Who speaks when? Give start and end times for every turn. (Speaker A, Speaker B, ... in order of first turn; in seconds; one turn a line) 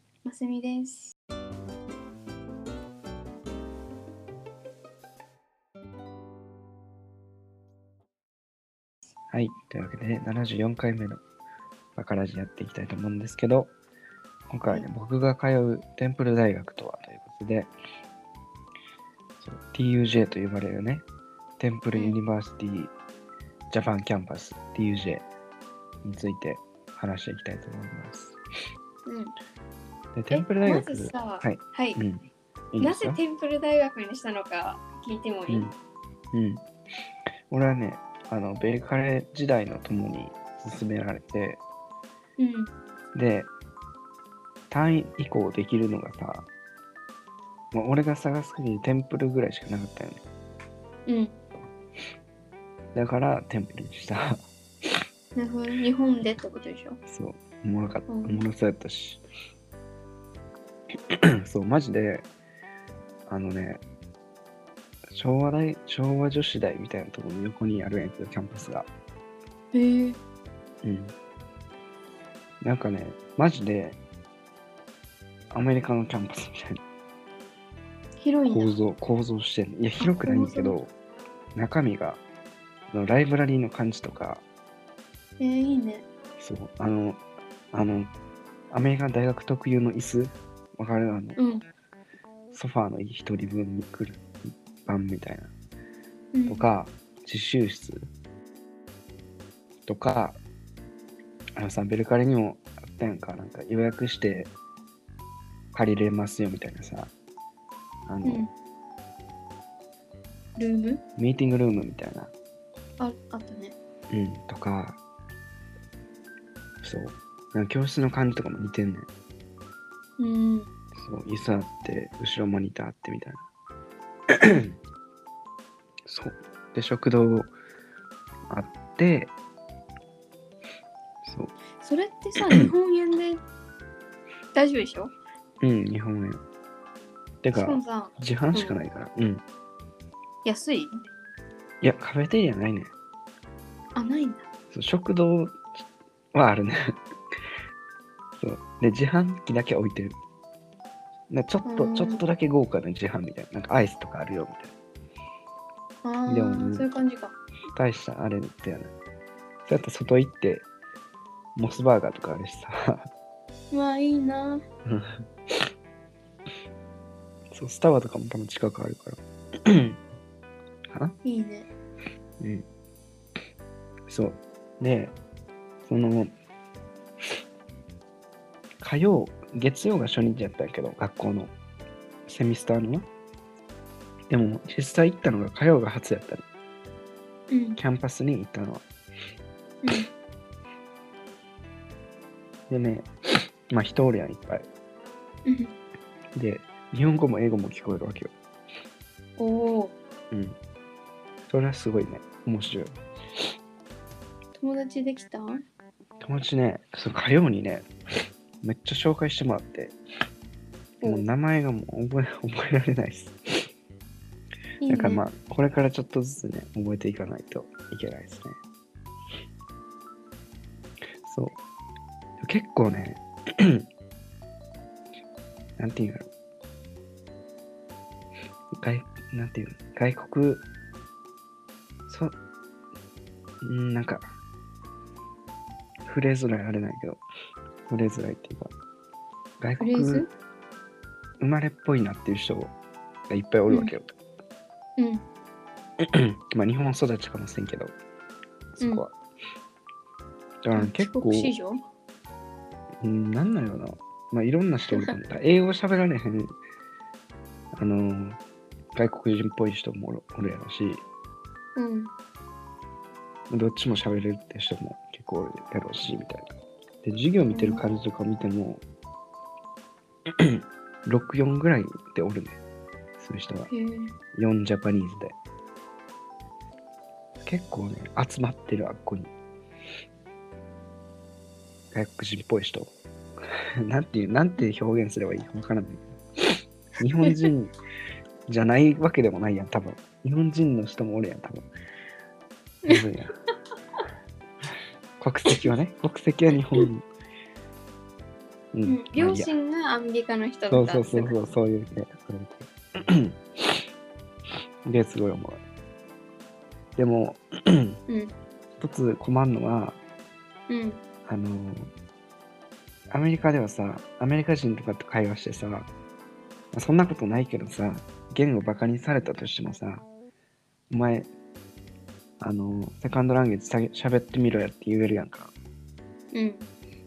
Speaker A: 0.2-1.1
Speaker B: 9.3-11.2
Speaker B: 11.9-13.7
Speaker B: 14.5-17.7
Speaker B: 19.4-21.0
Speaker B: 21.6-22.9
Speaker B: 23.7-25.2
Speaker B: 26.0-28.4
Speaker A: 29.1-29.3
Speaker B: 30.1-33.2
Speaker A: 30.3-32.0
Speaker A: 32.8-35.7
Speaker B: 35.5-35.7
Speaker B: 36.3-36.6
Speaker B: 37.5-41.6
Speaker A: 42.4-42.7
Speaker B: 43.1-43.5
Speaker B: 44.7-46.5
Speaker B: 47.7-50.2
Speaker A: 51.0-51.4
Speaker B: 52.9-54.4
Speaker A: 55.4-57.0
Speaker B: 57.1-59.2
Speaker A: 58.1-58.5
Speaker B: 61.1-62.3
Speaker B: 63.3-63.8
Speaker B: 65.1-68.9
Speaker A: 69.7-70.2
Speaker B: 70.8-71.1
Speaker B: 72.6-74.0
Speaker B: 75.5-76.8
Speaker A: 78.2-78.7
Speaker B: 78.5-80.9
Speaker A: 80.0-80.8
Speaker B: 81.5-82.2
Speaker B: 82.9-84.4
Speaker A: 85.4-86.0
Speaker B: 86.4-88.1
Speaker B: 88.7-91.4
Speaker A: 91.4-91.6
Speaker B: 92.5-94.2
Speaker B: 94.8-95.5
Speaker A: 96.3-96.7
Speaker B: 96.5-98.0
Speaker B: 99.8-100.4
Speaker B: 101.6-104.5
Speaker B: 105.7-107.1
Speaker B: 108.1-108.5
Speaker A: 108.2-108.5
Speaker A: 110.6-111.0
Speaker B: 111.2-112.3
Speaker A: 113.0-113.8
Speaker B: 114.1-115.0
Speaker B: 116.8-119.1
Speaker A: 120.2-120.7
Speaker B: 120.9-123.5
Speaker B: 124.4-124.7
Speaker B: 126.1-127.5
Speaker B: 128.5-129.3
Speaker B: 131.2-131.5
Speaker A: 131.8-133.4
Speaker A: 134.5-135.1
Speaker B: 135.6-136.4
Speaker B: 137.4-139.4
Speaker A: 137.5-138.8
Speaker A: 140.4-141.1
Speaker B: 141.8-142.9
Speaker A: 143.9-144.5
Speaker B: 144.7-145.6
Speaker B: 146.3-147.0
Speaker B: 148.4-150.2
Speaker B: 151.3-154.7
Speaker A: 151.6-152.2
Speaker A: 156.0-157.4
Speaker B: 156.3-156.8
Speaker B: 157.7-158.9
Speaker B: 159.7-160.7
Speaker B: 161.6-163.1
Speaker A: 163.7-164.6
Speaker B: 164.8-165.7
Speaker B: 167.5-170.0
Speaker B: 170.9-171.1
Speaker A: 171.2-171.7
Speaker B: 172.4-172.7
Speaker B: 174.1-175.2
Speaker B: 175.8-176.3
Speaker B: 178.8-181.5
Speaker B: 182.3-183.1
Speaker B: 184.3-186.4
Speaker A: 187.5-187.8
Speaker B: 187.8-188.8
Speaker A: 189.8-190.1
Speaker B: 192.7-193.1
Speaker B: 193.7-194.7
Speaker A: 195.4-195.7
Speaker B: 196.3-198.3
Speaker A: 199.4-199.9
Speaker B: 200.3-200.6
Speaker B: 201.5-202.9
Speaker A: 204.5-205.6
Speaker B: 206.2-207.9
Speaker B: 208.6-209.9
Speaker A: 211.0-211.3
Speaker B: 211.0-213.7
Speaker A: 214.8-215.2
Speaker B: 214.9-218.6
Speaker B: 221.2-221.6
Speaker B: 222.4-223.8
Speaker B: 225.8-226.3
Speaker B: 228.7-230.7
Speaker B: 232.1-232.3
Speaker B: 233.6-234.3
Speaker B: 236.0-237.2
Speaker B: 237.9-238.7
Speaker B: 239.6-240.2
Speaker A: 239.8-240.3
Speaker B: 241.4-242.7
Speaker B: 243.3-244.1
Speaker A: 245.0-245.2
Speaker B: 246.0-247.9
Speaker B: 248.8-249.1
Speaker A: 248.8-249.0
Speaker B: 250.6-251.5
Speaker A: 250.7-251.8
Speaker B: 253.0-256.5
Speaker B: 257.7-258.4
Speaker B: 258.9-261.0
Speaker A: 261.7-262.1
Speaker B: 263.5-268.8
Speaker A: 267.5-267.9
Speaker B: 270.4-272.6
Speaker B: 273.2-273.7
Speaker A: 273.7-274.1
Speaker B: 274.3-275.4
Speaker B: 277.4-279.3
Speaker B: 281.9-282.9
Speaker B: 283.8-286.1
Speaker B: 287.0-287.7
Speaker B: 288.5-291.7
Speaker B: 292.9-293.3
Speaker B: 295.2-297.0
Speaker B: 298.7-299.5
Speaker A: 298.9-301.4
Speaker B: 300.7-303.4
Speaker B: 304.8-305.6
Speaker B: 307.0-308.0
Speaker A: 308.1-308.3
Speaker B: 308.8-310.0
Speaker A: 310.7-311.0
Speaker B: 311.2-311.9
Speaker B: 313.1-315.9
Speaker B: 316.7-320.1
Speaker B: 320.9-321.3
Speaker B: 322.4-325.5
Speaker A: 326.3-326.7